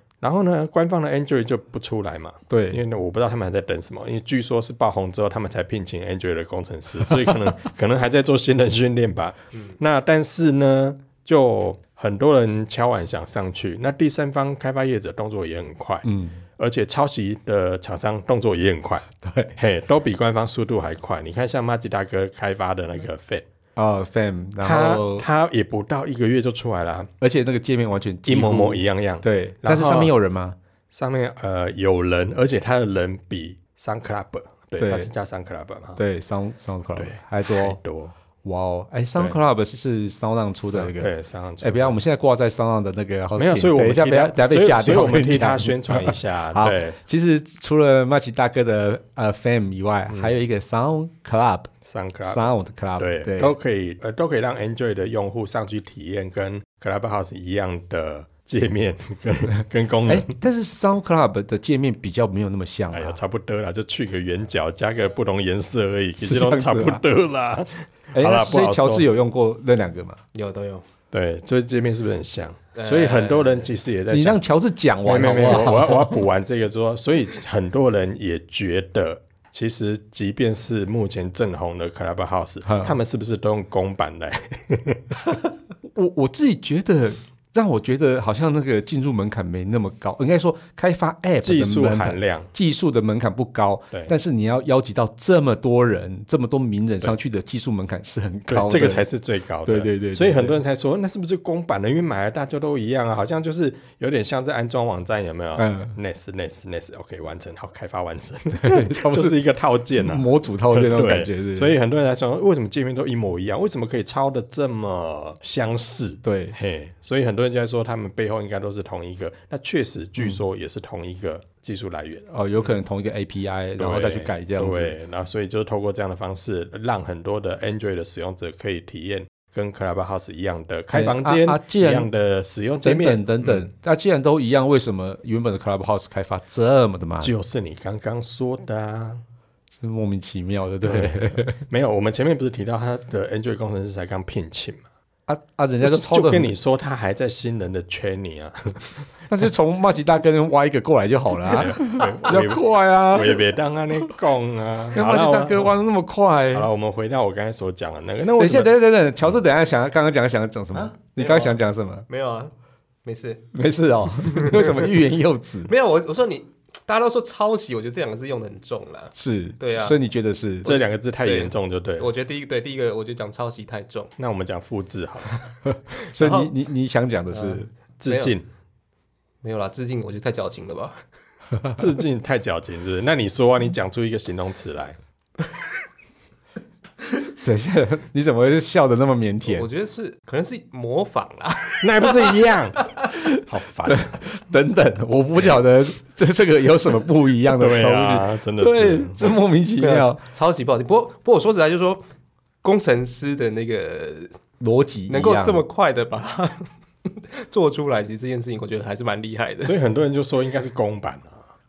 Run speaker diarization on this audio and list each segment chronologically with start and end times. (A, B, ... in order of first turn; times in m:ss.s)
0:00.2-0:16.1 A
0:02.5-0:02.8 B
0:07.1-0:07.3 B
0:16.0-0:16.4 B
0:16.6-0:23.4 A
0:19.2-0:19.6 B
0:23.8-0:25.3 B
0:24.6-0:27.1 A
0:27.2-0:30.6 B
0:28.2-0:30.1 A
0:30.9-0:36.0 A
0:34.8-0:35.1 B
0:36.0-0:37.8 B
0:37.0-0:38.1 A
0:38.4-0:41.1 B
0:40.6-0:42.0 A
0:41.6-0:51.7 B
0:43.4-0:47.0 A
0:51.8-0:52.4 A
0:52.2-0:53.5 B
0:53.0-1:00.3 A
1:00.1-1:03.2 B
1:02.9-1:09.1 A
1:06.2-1:07.0 B
1:08.1-1:10.2 B
1:10.3-1:10.8 C
1:11.1-1:14.4 A
1:12.8-1:13.7 C
1:14.1-1:16.2 B
1:15.0-1:25.2 A
1:22.7-1:23.0 B
1:25.9-1:39.1 B
1:31.4-1:32.5 A
1:38.5-2:02.2 A
1:39.6-1:40.6 B
1:45.6-1:46.0 B
1:48.5-1:49.4 B
1:50.0-1:51.8 B
1:56.2-1:56.6 B
2:02.3-2:04.9 B
2:03.8-2:13.7 A
2:10.9-2:12.1 B
2:12.8-2:17.3 B
2:17.2-2:19.2 A
2:19.8-2:21.6 B
2:20.8-2:24.8 A
2:25.3-2:26.6 B
2:25.8-2:29.1 A
2:29.3-2:33.4 B
2:31.4-2:35.8 A
2:34.9-2:36.7 B
2:36.5-2:38.8 A
2:38.4-2:42.1 B
2:40.8-2:42.5 C
2:43.0-2:43.4 C
2:43.5-2:45.7 B
2:44.2-2:44.9 C
2:45.7-2:50.0 C
2:49.1-2:50.7 B
2:50.6-2:52.1 A
2:50.7-2:54.1 C
2:54.2-2:55.5 A
2:55.6-2:57.7 B
2:56.0-2:56.5 C
2:57.3-2:58.4 C
2:58.0-2:58.4 A
2:59.4-3:01.0 C
3:01.8-3:05.0 A
3:07.4-3:09.7 B
3:09.5-3:12.9 C
3:11.8-3:14.2 A
3:13.2-3:20.2 B
3:17.5-3:19.3 A
3:19.8-3:22.0 C
3:22.6-3:24.4 C
3:24.6-3:25.6 B
3:25.1-3:29.8 C
3:29.6-3:31.4 A